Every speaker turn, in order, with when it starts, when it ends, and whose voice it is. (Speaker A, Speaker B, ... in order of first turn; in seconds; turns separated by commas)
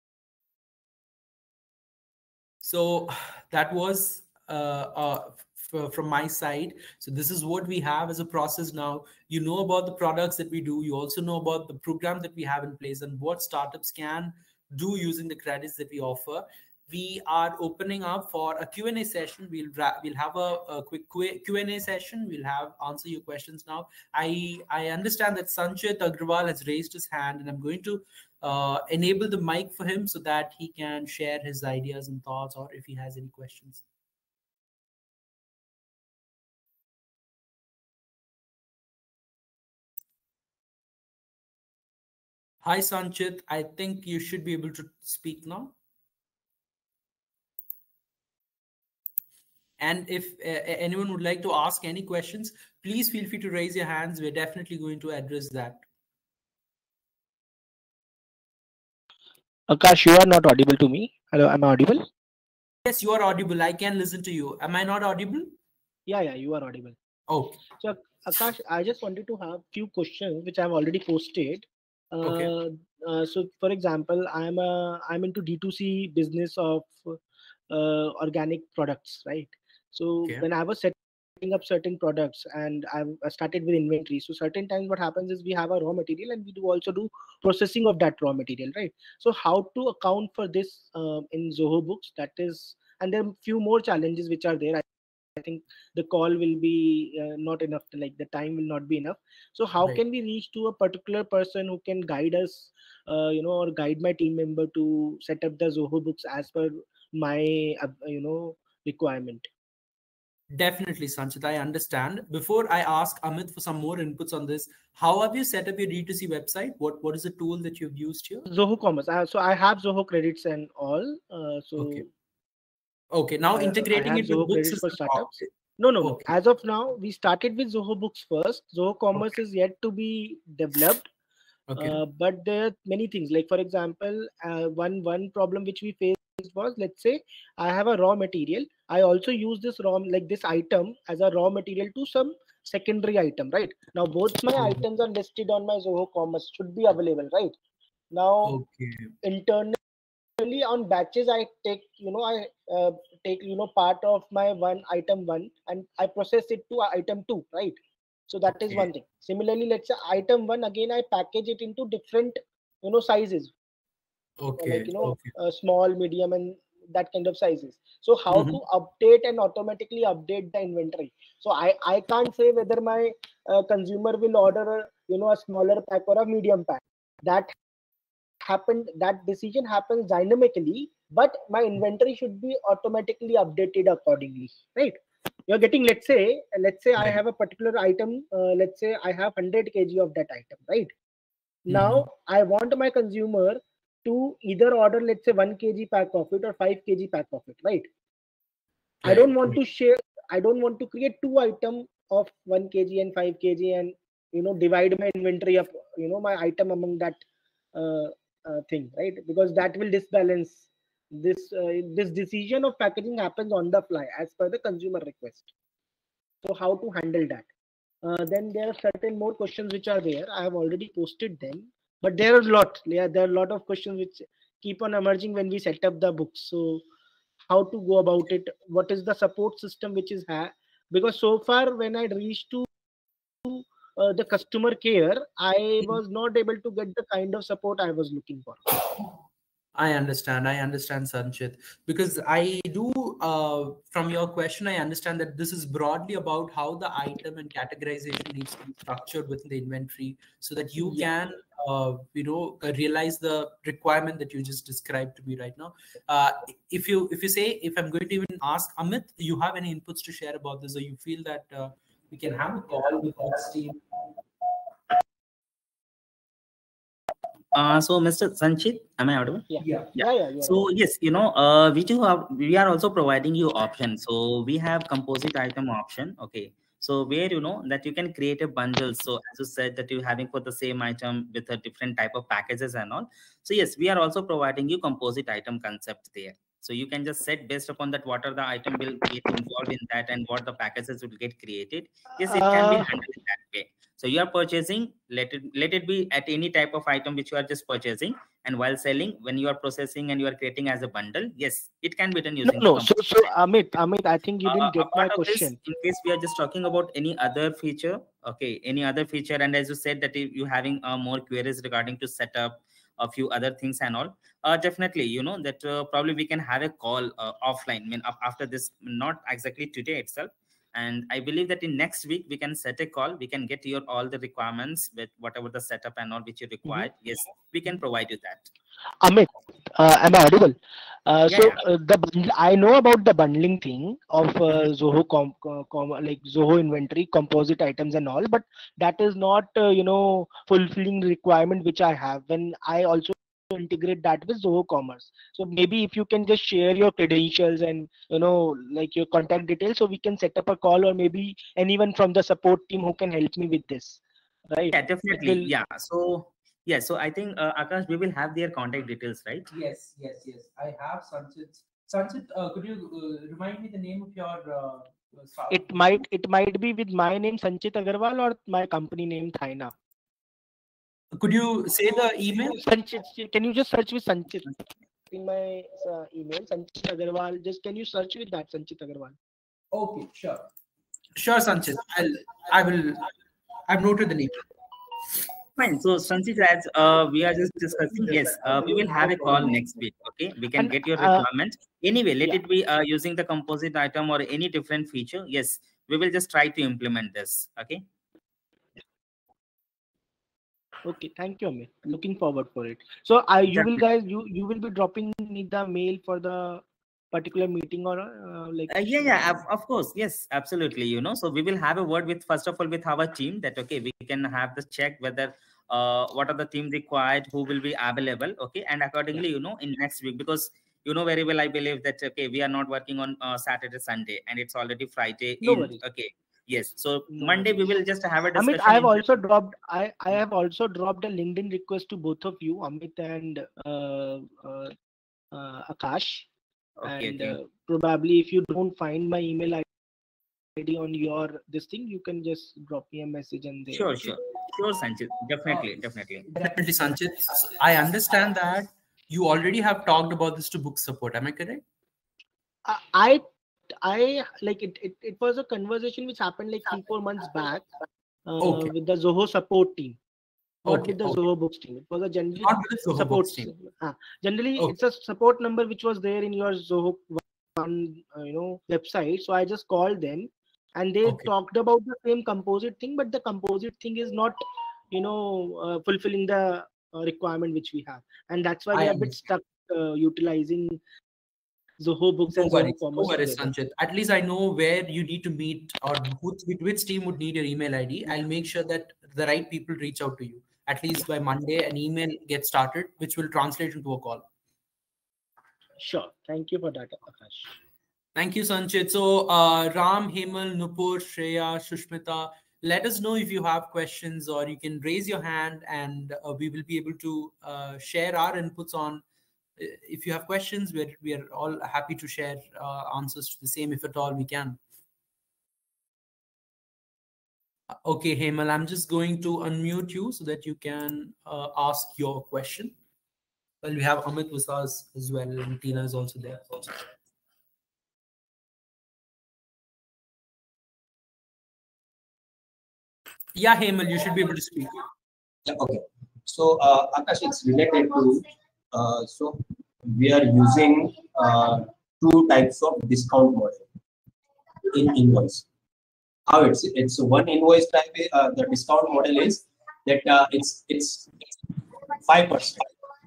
Speaker A: 2.6-33.8, Speaker A: 42.6-45.7, Speaker A: 49.8-55.8, Speaker B: 59.7-62.0, Speaker A: 62.8-65.5, Speaker B: 66.1-67.0, Speaker A: 67.3-67.6, Speaker B: 67.8-77.2, Speaker A: 72.2-72.5, Speaker B: 77.7-94.8, Speaker B: 95.4-109.5, Speaker A: 110.5-118.5, Speaker B: 118.5-122.0, Speaker A: 121.8-122.1, Speaker A: 123.1-125.5, Speaker B: 123.5-131.1, Speaker A: 126.0-126.3, Speaker A: 131.7-132.0, Speaker B: 131.8-147.5, Speaker A: 144.6-144.8, Speaker B: 148.1-148.5, Speaker A: 148.4-149.1, Speaker B: 149.2-149.8, Speaker B: 150.4-157.8, Speaker B: 158.3-163.5, Speaker A: 164.4-165.3, Speaker B: 164.6-177.5, Speaker A: 168.3-168.6, Speaker B: 178.4-190.9, Speaker B: 191.7-197.9, Speaker A: 191.7-192.1, Speaker B: 199.0-207.2, Speaker B: 207.7-215.5, Speaker B: 216.4-217.4, Speaker B: 218.0-226.8, Speaker B: 227.5-232.7, Speaker B: 233.4-238.8, Speaker A: 239.8-263.8, Speaker C: 267.5-303.3, Speaker B: 269.5-270.6, Speaker A: 269.6-269.9, Speaker B: 292.2-292.9, Speaker B: 302.4-305.5, Speaker C: 304.4-328.5, Speaker B: 329.0-355.5, Speaker C: 331.3-331.6, Speaker C: 354.7-359.5, Speaker A: 359.5-366.0, Speaker B: 365.5-369.7, Speaker A: 371.1-372.6, Speaker B: 372.6-374.5, Speaker B: 375.1-379.1, Speaker A: 379.7-380.5, Speaker A: 381.1-383.1, Speaker A: 383.7-384.4, Speaker C: 385.6-397.8, Speaker A: 388.0-389.4, Speaker B: 390.6-391.2, Speaker B: 400.8-409.4, Speaker C: 403.5-403.8, Speaker C: 408.7-429.1, Speaker B: 425.4-425.8, Speaker B: 427.1-427.5, Speaker B: 428.4-434.7, Speaker B: 435.3-436.2, Speaker C: 436.8-437.4, Speaker B: 436.8-439.6, Speaker B: 440.6-444.1, Speaker C: 443.7-446.2, Speaker A: 446.3-451.6, Speaker B: 452.6-453.2, Speaker B: 453.8-460.0, Speaker A: 458.4-458.7, Speaker A: 460.6-461.2, Speaker B: 460.7-480.8, Speaker A: 462.4-463.2, Speaker C: 463.0-463.5, Speaker A: 471.0-471.3, Speaker A: 478.7-479.2, Speaker B: 481.8-483.5, Speaker A: 482.4-494.2, Speaker B: 495.8-497.5, Speaker A: 498.1-509.0, Speaker A: 509.6-514.6, Speaker A: 517.8-522.7, Speaker A: 523.6-526.8, Speaker A: 533.3-534.8, Speaker D: 535.5-543.6, Speaker D: 544.7-545.4, Speaker D: 546.3-551.1, Speaker D: 552.0-552.7